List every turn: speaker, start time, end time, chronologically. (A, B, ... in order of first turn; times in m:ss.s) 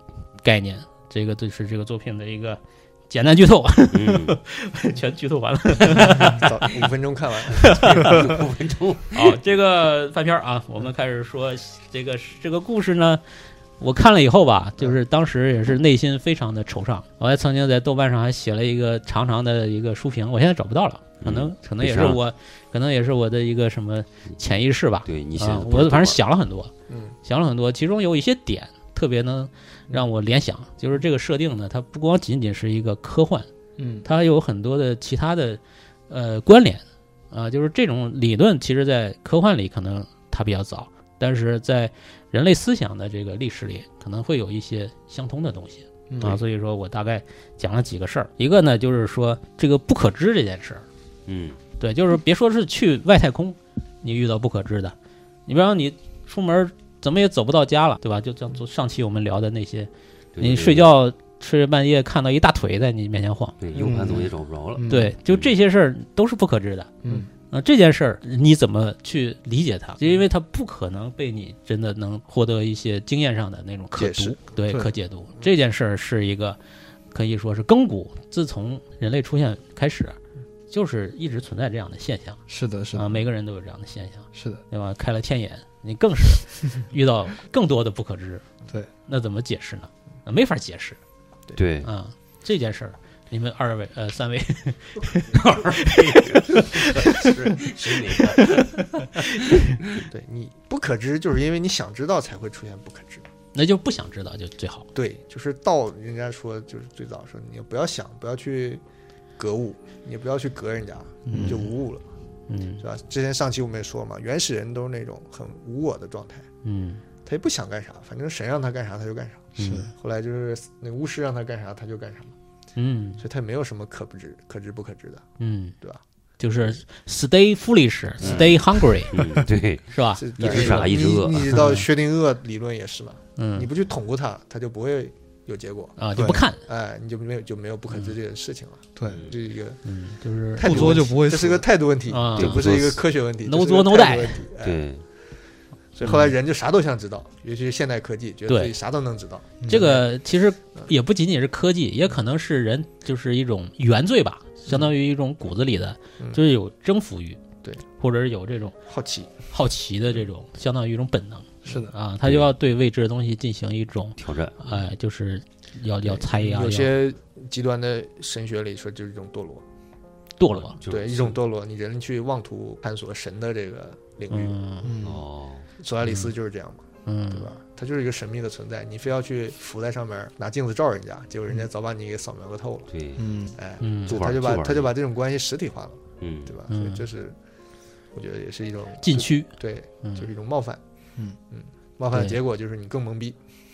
0:00.4-0:06.6 A
0:03.9-0:04.4 B
0:06.2-0:08.2 C
0:07.5-0:08.1 A
0:08.0-0:09.3 B
0:09.1-0:13.2 A
0:13.8-0:26.7 A
0:21.2-0:22.2 B
0:25.0-0:26.2 B
0:26.9-0:27.1 C
0:27.2-0:33.5 A
0:33.8-0:34.0 D
0:34.0-0:50.8 A
0:46.1-0:46.4 D
0:51.3-0:51.6 B
0:51.8-0:54.9 A
0:55.5-1:03.6 A
1:00.4-1:00.9 B
1:03.6-1:05.5 B
1:03.7-1:05.1 D
1:04.9-1:06.9 A
1:07.0-1:07.3 D
1:07.5-1:16.6 A
1:14.0-1:14.4 C
1:17.1-1:20.2 A
1:20.7-1:22.4 A
1:22.5-1:23.2 D
1:22.9-1:28.4 A
1:24.3-1:24.6 D
1:29.1-1:31.0 A
1:31.6-1:31.9 B
1:31.8-1:37.6 A
1:35.3-1:38.8 B
1:38.2-1:39.8 A
1:40.0-1:43.2 C
1:43.5-1:44.9 A
1:44.9-1:48.8 C
1:49.4-1:52.0 C
1:51.3-1:51.7 D
1:51.3-1:51.6 A
1:52.5-1:52.8 A
1:52.8-1:56.4 C
1:56.6-1:57.0 A
1:57.2-2:02.3 C
1:59.6-1:59.9 A
1:59.6-1:59.9 D
2:02.8-2:03.2 A
2:03.2-2:05.2 C
2:05.4-2:05.8 A
2:06.4-2:09.1 A
2:08.2-2:08.6 B
2:08.2-2:08.5 C
2:09.1-2:11.7 B
2:09.9-2:10.8 A
2:10.2-2:16.0 C
2:13.4-2:13.7 A
2:16.0-2:16.6 A
2:16.1-2:16.4 D
2:16.6-2:19.8 C
2:19.0-2:19.2 D
2:19.1-2:19.3 B
2:19.8-2:21.1 A
2:20.6-2:24.8 C
2:20.6-2:21.6 D
2:22.1-2:22.7 A
2:22.4-2:23.0 B
2:23.4-2:24.4 A
2:24.6-2:25.0 B
2:25.9-2:30.0 C
2:26.0-2:26.3 A
2:28.5-2:28.7 A
2:29.6-2:29.9 D
2:29.7-2:37.4 A
2:38.0-2:38.8 A
2:38.9-2:39.3 C
2:39.5-2:46.9 A
2:41.6-2:41.9 D
2:42.2-2:42.5 B
2:44.2-2:44.7 B
2:46.0-2:49.6 C
2:50.4-2:50.8 A
2:50.8-2:51.4 B
2:50.8-2:54.6 C
2:54.3-2:54.9 A
2:54.8-2:55.2 D
2:55.0-2:55.7 B
2:55.8-3:02.9 C
2:56.0-2:56.3 A
2:57.0-2:57.5 A
3:02.9-3:03.2 B
3:03.2-3:03.6 D
3:03.5-3:07.4 C
3:03.8-3:04.2 A
3:04.1-3:04.9 B
3:06.2-3:06.6 B
3:06.7-3:07.0 A
3:08.1-3:10.8 C
3:09.0-3:10.3 A
3:11.5-3:13.4 C
3:12.1-3:12.4 A